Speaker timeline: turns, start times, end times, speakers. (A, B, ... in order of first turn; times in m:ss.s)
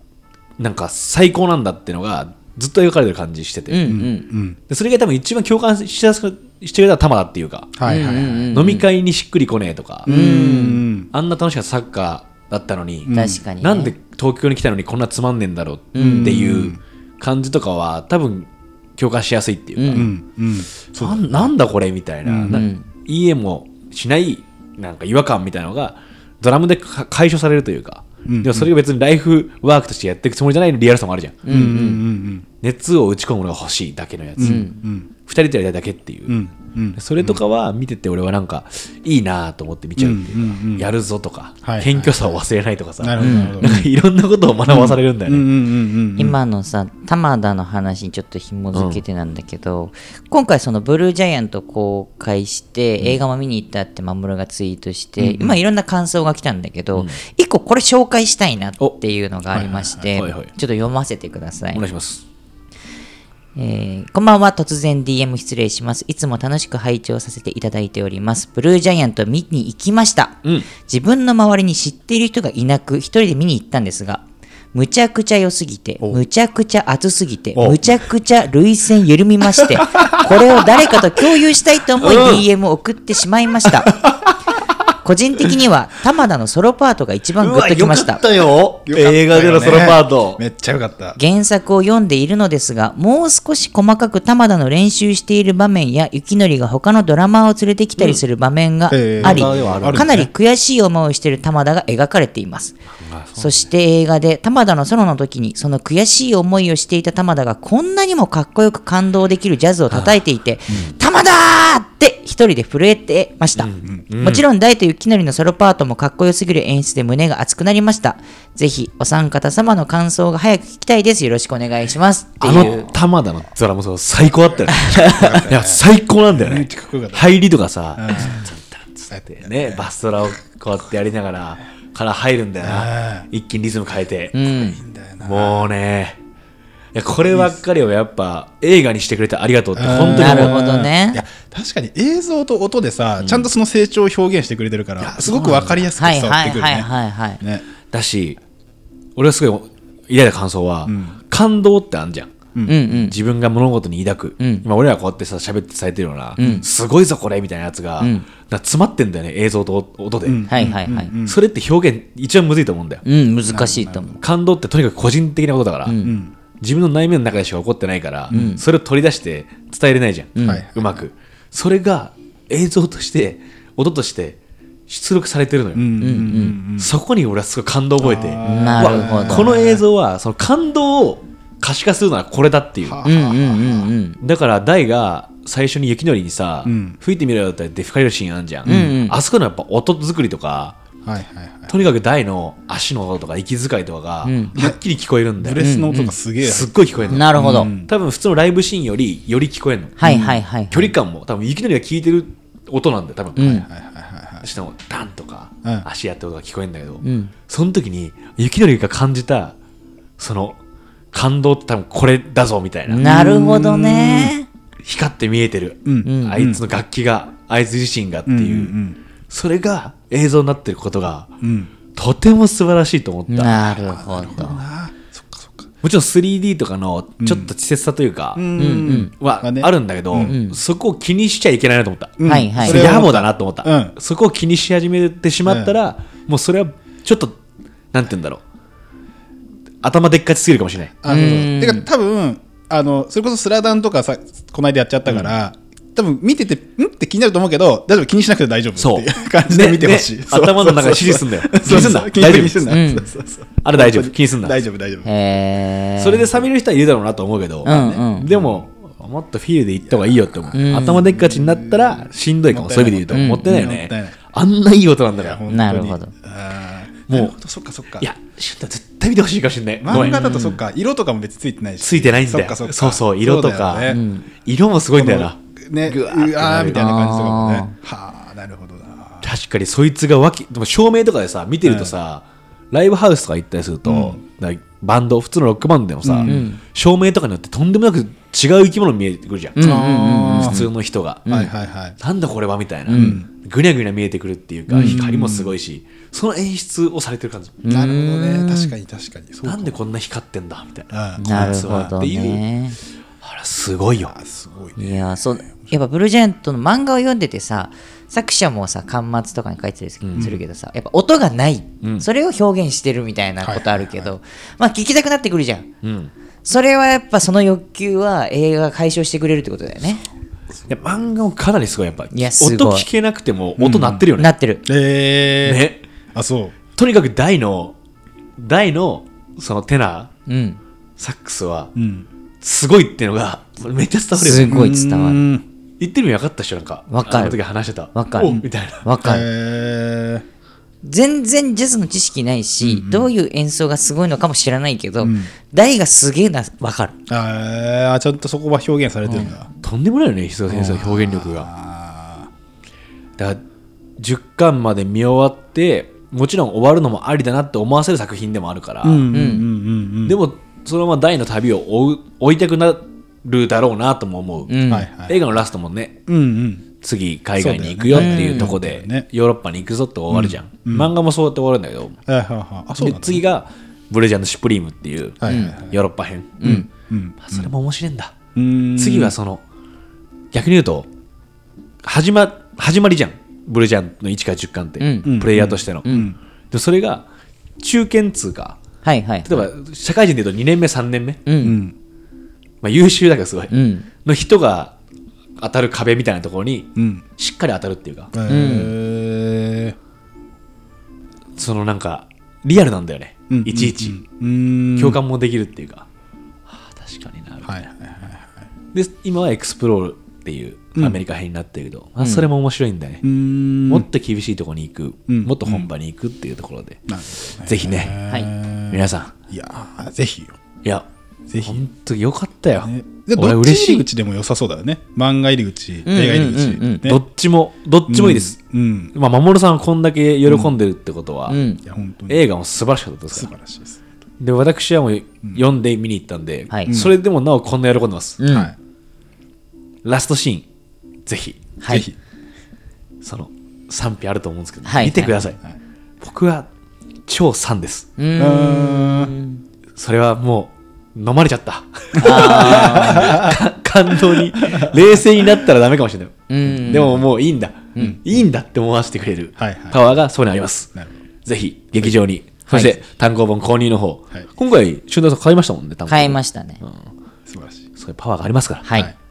0:00.6-0:03.8 A
0:03.7-0:04.3 B
0:03.9-0:04.6 C
0:04.7-0:07.8 A
0:07.8-0:08.5 C
0:07.9-0:08.9 B
0:08.5-0:20.1 A
0:10.1-0:11.1 C
0:10.1-0:10.8 B
0:13.1-0:13.4 C
0:13.1-0:13.9 B
0:15.9-0:16.5 B
0:16.0-0:16.8 C
0:19.8-0:20.1 B
0:19.9-0:21.5 C
0:20.9-0:31.5 A
0:22.2-0:22.7 C
0:22.5-0:22.9 B
0:28.3-0:28.7 C
0:31.5-0:32.0 B
0:31.5-0:32.5 C
0:32.6-0:34.7 A
0:34.4-0:35.1 C
0:34.4-0:34.8 B
0:35.2-0:36.4 A
0:36.3-0:37.4 C
0:37.0-0:45.5 A
0:40.0-0:40.9 C
0:41.6-0:42.4 C
0:43.0-0:43.9 C
0:43.2-0:43.9 B
0:44.7-0:46.4 C
0:46.2-1:01.8 B
0:48.7-0:49.0 A
0:59.6-1:00.0 C
1:00.1-1:00.5 A
1:01.7-1:02.2 A
1:03.6-1:24.0 B
1:17.6-1:17.8 A
1:22.0-1:22.5 A
1:23.9-1:24.2 A
1:25.0-1:28.2 B
1:27.4-1:30.4 A
1:28.9-1:31.2 C
1:31.2-1:42.8 B
1:38.0-1:38.2 A
1:38.9-1:40.3 C
1:39.2-1:40.2 A
1:43.0-1:43.7 A
1:43.4-1:53.7 B
1:49.9-1:50.2 A
1:53.6-1:54.4 A
1:54.2-2:02.9 B
2:02.4-2:14.4 A
2:04.3-2:07.3 C
2:04.7-2:05.5 B
2:08.0-2:08.5 C
2:09.1-2:09.9 C
2:12.6-2:13.3 C
2:14.3-2:14.8 B
2:14.5-2:15.7 C
2:15.2-2:16.2 A
2:16.9-2:20.6 A
2:17.2-2:17.6 C
2:19.8-2:26.9 C
2:20.1-2:21.2 B
2:23.2-2:23.5 A
2:25.0-2:25.9 A
2:26.0-2:27.4 B
2:27.9-2:28.4 A
2:29.2-2:40.5 A
2:30.8-2:31.2 C
2:32.7-2:33.2 B
2:34.4-2:34.6 B
2:36.4-2:36.7 B
2:38.0-2:38.3 B
2:40.2-2:41.4 C
2:40.5-2:41.1 B
2:41.2-2:43.0 A
2:43.0-2:44.2 B
2:43.4-2:44.2 C
2:44.2-2:46.0 A
2:45.8-2:46.2 B
2:46.0-2:46.4 C
2:46.6-2:55.9 A
2:48.3-2:48.6 B
2:50.4-2:50.6 B
2:50.4-2:51.1 C
2:55.8-2:56.9 C
2:56.0-2:56.6 B
2:56.8-3:03.0 A
2:58.0-2:59.8 C
2:58.4-2:59.6 B
3:02.8-3:03.9 C
3:03.0-3:04.2 B
3:04.2-3:10.8 A
3:06.7-3:07.0 C
3:08.7-3:09.0 C
3:08.7-3:09.2 B
3:11.0-3:11.8 C
3:11.7-3:15.6 A
3:14.2-3:14.6 B
3:15.4-3:17.9 C
3:15.6-3:16.2 B
3:16.4-3:23.7 A
3:17.1-3:17.7 B
3:20.0-3:21.0 B
3:20.0-3:20.3 C
3:23.4-3:23.7 B
3:23.4-3:24.5 C
3:24.4-3:29.6 A
3:27.0-3:27.3 B
3:30.2-3:30.6 A
3:31.1-3:33.0 A
3:32.9-3:34.5 B
3:33.0-3:34.3 C
3:34.8-3:38.8 A
3:35.8-3:36.6 C
3:36.0-3:36.4 B
3:38.3-3:39.0 C
3:39.3-3:41.3 A
3:41.4-3:41.7 C
3:41.9-3:43.8 A
3:43.3-3:44.6 B
3:43.8-3:45.7 C
3:45.8-3:48.5 A
3:47.2-3:47.5 C
3:48.4-3:50.4 C
3:48.6-3:49.1 B
3:49.2-3:57.4 A
3:50.2-3:50.6 B
3:52.2-3:53.9 C
3:52.2-3:53.0 B
3:55.5-3:55.8 C
3:57.9-3:58.4 A
3:59.8-4:01.0 A
4:01.0-4:15.1 C
4:01.1-4:01.9 B
4:05.1-4:05.3 A
4:08.8-4:12.7 A
4:11.7-4:12.0 B
4:12.7-4:13.1 B
4:13.6-4:14.6 A
4:15.0-4:16.3 B
4:16.0-4:25.4 A
4:17.6-4:18.3 B
4:17.6-4:18.6 C
4:19.8-4:24.2 C
4:20.5-4:21.0 B
4:23.1-4:23.6 B
4:25.2-4:28.1 C
4:25.5-4:26.1 B
4:27.1-4:27.4 A
4:28.0-4:30.2 A
4:29.8-4:34.0 C
4:29.9-4:30.6 B
4:31.8-4:36.9 A
4:33.9-4:34.3 B
4:34.9-4:39.3 C
4:36.7-4:37.7 B
4:39.2-4:57.6 A
4:41.6-4:42.0 C
4:43.9-4:44.2 C
4:46.0-4:46.4 C
4:46.2-4:46.6 B
4:49.6-4:50.7 B
4:49.6-4:50.7 C
4:51.3-4:52.0 C
4:52.9-4:53.2 B
4:52.9-4:53.3 C
4:54.7-4:55.0 B
4:54.8-4:55.6 C
4:57.6-4:58.7 B
4:57.7-4:59.8 C
4:59.4-5:02.4 A
5:00.9-5:02.0 C
5:01.2-5:02.8 B
5:03.2-5:04.1 A
5:04.0-5:05.0 C
5:04.8-5:15.7 B
5:10.0-5:10.3 A
5:13.4-5:14.1 C
5:15.8-5:16.1 A
5:16.4-5:20.0 B
5:20.7-5:24.3 A
5:22.1-5:22.9 B
5:23.6-5:24.1 C
5:24.2-5:24.6 B
5:24.7-5:26.6 C
5:25.4-5:25.8 A
5:26.8-5:27.8 A
5:28.4-5:30.1 A
5:30.3-5:30.6 B
5:31.0-5:31.7 A
5:31.8-5:32.1 C
5:32.4-5:34.6 A
5:34.1-5:35.3 B
5:34.4-5:35.4 C
5:35.8-5:38.9 A
5:36.9-5:37.4 B
5:37.9-5:39.3 B
5:38.2-5:38.5 C
5:39.0-5:40.2 C
5:40.8-5:47.0 B
5:42.6-5:43.1 C
5:45.0-5:45.3 C
5:47.1-5:49.5 C
5:49.6-5:51.5 A
5:50.5-5:52.3 C
5:54.0-5:59.1 A
5:58.8-6:00.2 C
5:59.1-5:59.5 B
6:00.0-6:06.0 A
6:04.5-6:04.9 B
6:04.7-6:05.3 C
6:06.1-6:06.7 C
6:06.8-6:12.0 A
6:07.4-6:09.1 C
6:07.9-6:08.6 B
6:10.1-6:10.9 C
6:12.1-6:13.2 C
6:12.8-6:16.5 A
6:15.2-6:15.8 C
6:15.2-6:15.6 B
6:16.4-6:16.7 B
6:16.4-6:17.5 C
6:17.2-6:18.1 A
6:18.4-6:19.2 C
6:18.8-6:19.4 A
6:20.3-6:20.9 A
6:21.8-6:27.0 A
6:24.8-6:25.2 B
6:25.1-6:26.2 C
6:25.8-6:26.1 B
6:27.6-6:28.6 A
6:28.8-6:29.5 B
6:29.3-6:31.2 A
6:31.3-6:31.6 B
6:31.4-6:31.8 C
6:32.6-6:33.5 A
6:33.5-6:33.9 B
6:34.0-6:34.8 A
6:35.4-6:38.1 A
6:36.8-6:37.1 C
6:38.1-6:39.8 C
6:38.3-6:38.7 B
6:41.4-6:44.0 A
6:43.3-6:45.0 C
6:44.8-6:45.9 A
6:46.5-6:47.5 A
6:47.4-6:48.5 C
6:48.7-6:53.0 A
6:53.0-6:53.9 C
6:53.7-6:56.9 A
6:55.1-6:55.7 C
6:56.9-7:00.4 C
6:57.4-6:58.0 A
6:58.7-6:59.1 A
7:01.3-7:01.6 C
7:01.4-7:03.9 A
7:02.6-7:07.0 C
7:05.9-7:06.9 B
7:06.8-7:08.4 A
7:07.9-7:08.9 C
7:08.9-7:11.4 A
7:10.3-7:10.6 C
7:11.3-7:11.6 B
7:11.6-7:12.3 C
7:12.1-7:13.3 A
7:13.1-7:13.9 C
7:14.2-7:18.2 A
7:16.7-7:17.0 C
7:18.2-7:18.5 B
7:18.3-7:18.6 C
7:19.8-7:20.4 A
7:21.1-7:21.5 A
7:21.6-7:21.9 B
7:21.7-7:22.0 C
7:23.0-7:25.4 A
7:24.6-7:25.2 B
7:26.0-7:26.5 A
7:27.1-7:27.9 A
7:28.0-7:29.4 B
7:28.2-7:29.1 C
7:29.8-7:40.8 A
7:32.0-7:35.5 C
7:32.0-7:33.3 B
7:36.3-7:37.0 B
7:39.4-7:39.8 C
7:41.3-7:46.9 A
7:42.5-7:42.8 B
7:45.9-7:46.6 B
7:47.3-7:47.7 C
7:47.8-7:48.7 A
7:48.6-7:48.9 B